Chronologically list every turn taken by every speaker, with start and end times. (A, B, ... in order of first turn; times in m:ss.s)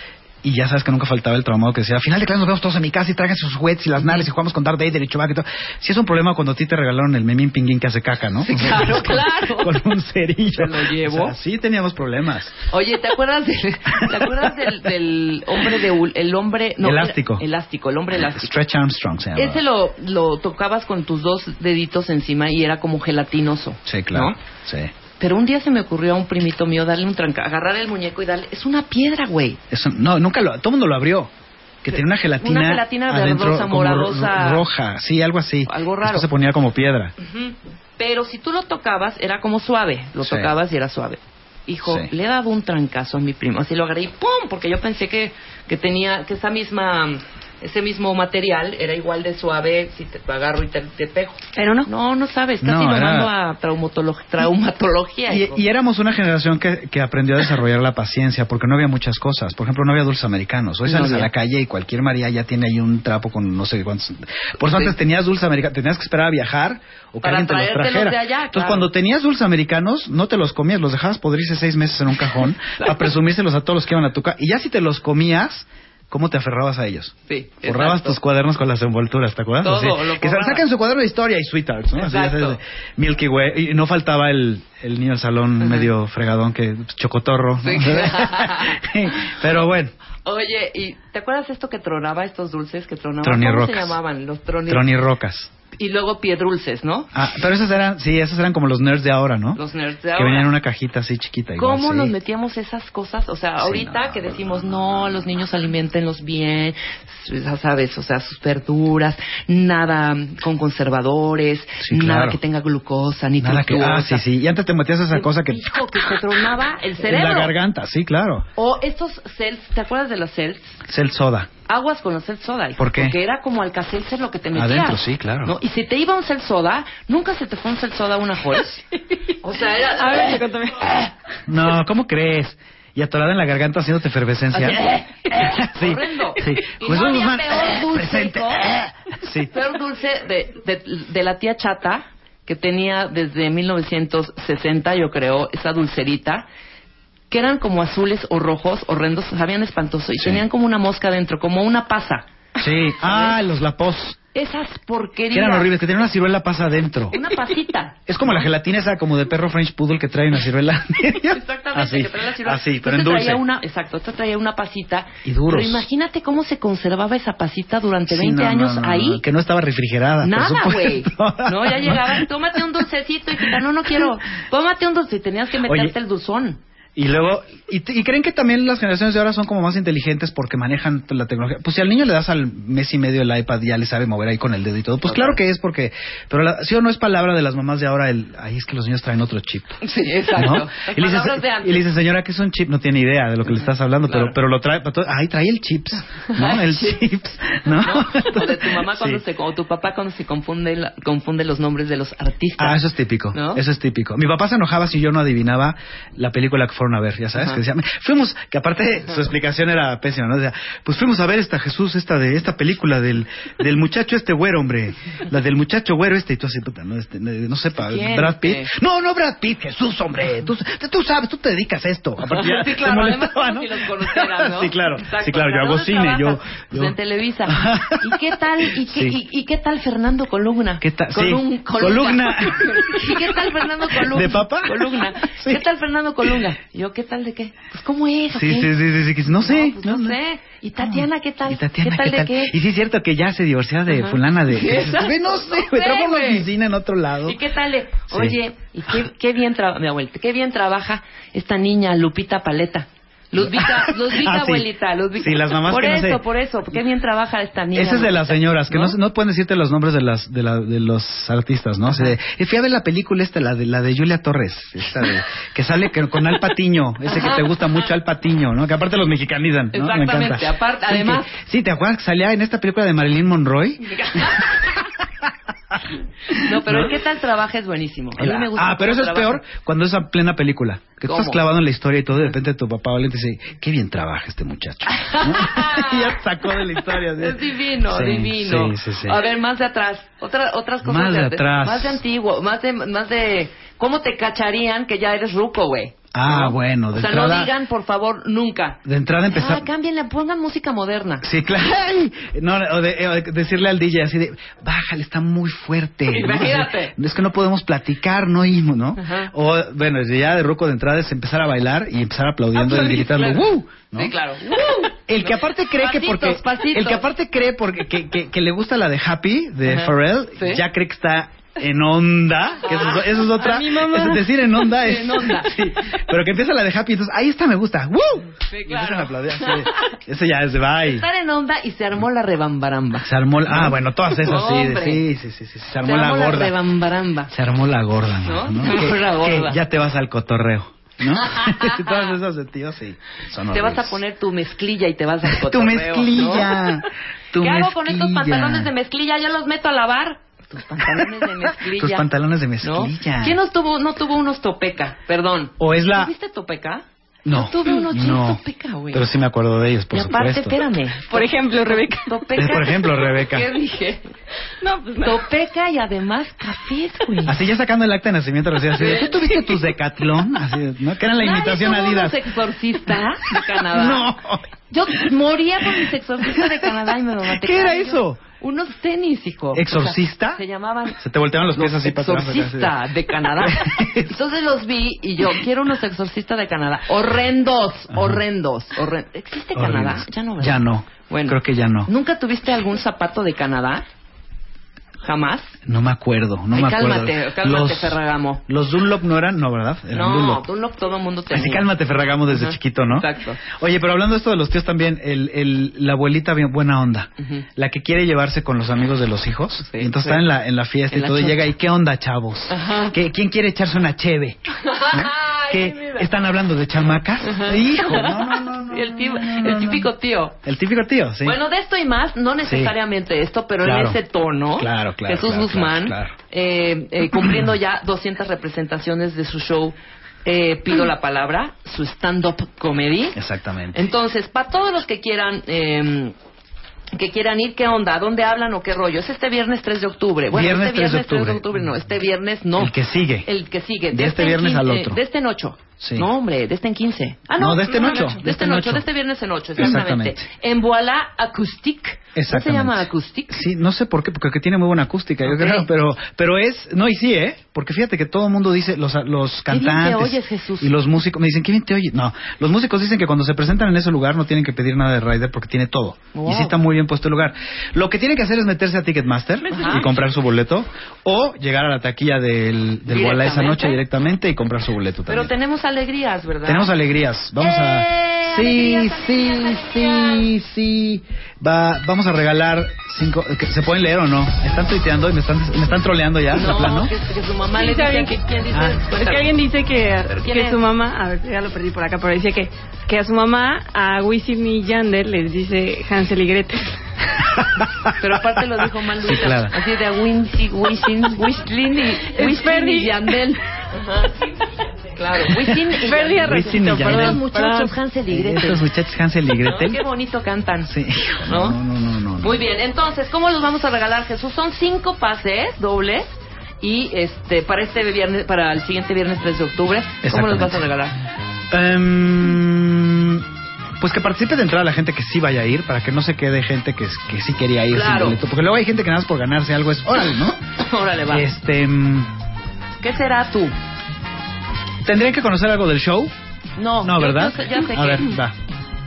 0:00.4-0:12.6 A
0:08.4-0:09.8 B
0:10.5-0:11.4 B
0:12.7-0:18.5 B
0:14.0-0:14.6 A
0:16.8-0:17.4 A
0:18.1-0:19.6 A
0:19.4-0:24.4 B
0:23.9-0:24.9 A
0:25.2-0:29.6 B
0:29.7-0:37.1 A
0:31.9-0:34.7 B
0:35.7-0:36.3 B
0:37.2-0:55.6 B
0:40.2-0:40.6 A
0:41.8-0:42.1 A
0:51.6-0:51.9 C
0:52.6-0:53.3 A
0:55.3-1:29.9 A
1:00.8-1:01.3 B
1:07.2-1:08.9 B
1:12.8-1:13.1 B
1:17.3-1:18.2 B
1:19.6-1:20.6 B
1:22.0-1:22.6 B
1:25.6-1:25.9 B
1:27.6-1:29.6 B
1:30.2-1:34.9 B
1:33.2-1:34.0 A
1:34.7-1:35.5 A
1:35.8-1:37.1 B
1:37.1-1:39.6 A
1:39.6-1:40.5 B
1:40.2-1:42.1 A
1:41.6-1:54.2 B
1:43.6-1:45.0 A
1:51.8-1:52.4 A
1:53.4-1:55.6 A
1:55.1-1:57.6 B
1:57.0-1:58.5 A
1:58.6-2:00.8 B
2:00.9-2:01.5 A
2:01.7-2:08.8 B
2:02.8-2:03.2 A
2:04.6-2:05.5 A
2:09.4-2:10.5 B
2:10.0-2:11.1 C
2:11.5-2:19.5 A
2:14.5-2:18.8 B
2:19.5-2:26.4 B
2:27.3-2:32.3 B
2:32.6-2:34.2 A
2:32.9-2:33.4 B
2:34.3-2:35.9 B
2:35.3-2:37.2 A
2:37.1-2:38.5 B
2:38.1-2:43.4 A
2:41.3-2:49.2 B
2:45.2-2:45.9 A
2:48.1-2:52.6 A
2:50.2-2:56.6 B
2:55.7-2:56.0 A
2:57.0-3:09.8 A
3:05.0-3:05.4 B
3:09.8-3:11.9 B
3:10.3-3:19.2 A
3:14.1-3:14.4 B
3:16.2-3:17.0 B
3:17.7-3:22.8 B
3:22.6-3:47.0 A
3:23.3-3:23.6 B
3:27.4-3:27.6 B
3:37.8-3:38.7 B
3:42.2-3:58.7 B
3:47.5-3:49.2 A
3:50.8-3:55.6 A
3:58.3-4:00.2 A
3:59.3-4:02.6 B
4:00.8-4:07.4 A
4:03.9-4:06.5 B
4:07.3-4:19.0 B
4:08.1-4:08.4 A
4:13.4-4:16.2 A
4:17.8-4:34.9 A
4:27.1-4:27.6 B
4:29.7-4:31.3 B
4:33.8-4:34.8 B
4:35.7-4:37.0 A
4:36.3-4:39.4 B
4:38.2-4:49.2 A
4:41.0-4:41.4 B
4:44.9-4:46.2 B
4:46.7-4:58.8 B
4:50.8-4:52.0 A
4:56.1-4:57.5 A
4:58.8-4:59.7 A
4:59.3-5:01.3 B
5:01.2-5:14.2 A
5:06.1-5:07.0 B
5:09.0-5:09.3 B
5:12.5-5:17.1 B
5:14.7-5:31.1 A
5:19.6-5:20.6 B
5:22.6-5:23.3 B
5:23.3-5:24.3 C
5:24.7-5:26.0 B
5:28.5-5:30.0 B
5:30.8-5:35.0 B
5:33.0-5:36.6 A
5:35.8-5:37.3 B
5:37.3-5:44.0 A
5:38.2-5:39.6 B
5:41.1-5:42.2 B
5:43.5-5:46.8 B
5:45.2-5:48.7 A
5:47.4-5:52.1 B
5:50.8-5:53.4 A
5:52.6-5:59.1 B
5:55.6-5:56.1 A
5:57.2-6:00.6 A
5:59.9-6:04.1 B
6:01.1-6:02.2 C
6:02.4-6:03.5 A
6:04.6-6:05.3 C
6:05.0-6:07.4 B
6:07.2-6:12.3 A
6:08.7-6:09.3 B
6:11.2-6:14.1 B
6:13.3-6:15.1 A
6:14.7-6:21.0 B
6:15.6-6:16.7 A
6:17.2-6:18.2 A
6:19.5-6:20.4 A
6:21.0-6:24.1 A
6:21.5-6:33.8 B
6:27.9-6:28.2 A
6:29.6-6:31.9 A
6:35.0-6:35.6 B
6:35.6-6:40.4 A
6:36.5-6:38.4 B
6:39.9-6:41.7 B
6:41.3-6:59.9 A
6:42.3-6:43.4 B
6:47.2-6:47.5 B
6:49.6-6:50.3 B
6:50.9-6:51.5 B
6:52.5-6:53.0 B
6:54.5-6:56.1 B
6:57.2-7:00.4 B
7:00.4-7:01.4 A
7:01.2-7:13.2 B
7:02.4-7:02.8 A
7:03.6-7:04.0 A
7:04.6-7:06.1 A
7:13.2-7:13.8 A
7:13.7-7:16.1 B
7:17.0-7:33.4 B
7:20.3-7:21.4 A
7:22.6-7:23.3 A
7:23.9-7:25.0 A
7:25.8-7:26.1 A
7:27.4-7:28.8 A
7:29.6-7:30.3 A
7:32.2-7:55.3 A
7:35.2-7:35.7 B
7:39.5-7:40.7 B
7:46.1-7:46.6 B
7:49.5-7:49.9 B
7:52.9-7:53.8 B
7:55.1-7:56.7 B
7:56.4-8:06.9 A
7:57.4-8:00.3 B
8:06.3-8:09.3 B
8:07.5-8:16.8 C
8:08.5-8:08.8 A
8:10.2-8:10.6 B
8:17.2-8:18.4 A
8:18.0-8:24.3 B
8:19.0-8:19.6 A
8:22.1-8:23.3 C
8:25.0-8:28.6 B
8:25.2-8:27.2 A
8:25.7-8:27.8 C
8:28.1-8:29.8 A
8:29.4-8:31.6 B
8:30.7-8:32.5 A
8:32.2-8:36.1 B
8:36.6-8:41.0 B
8:40.0-8:40.7 A
8:41.5-8:43.3 A
8:43.8-8:50.4 A
8:47.7-8:48.2 B
8:50.6-8:51.3 B
8:51.1-8:52.1 A
8:52.8-8:53.5 B
8:54.8-8:56.1 A
8:56.6-8:58.2 B
8:56.8-8:58.4 A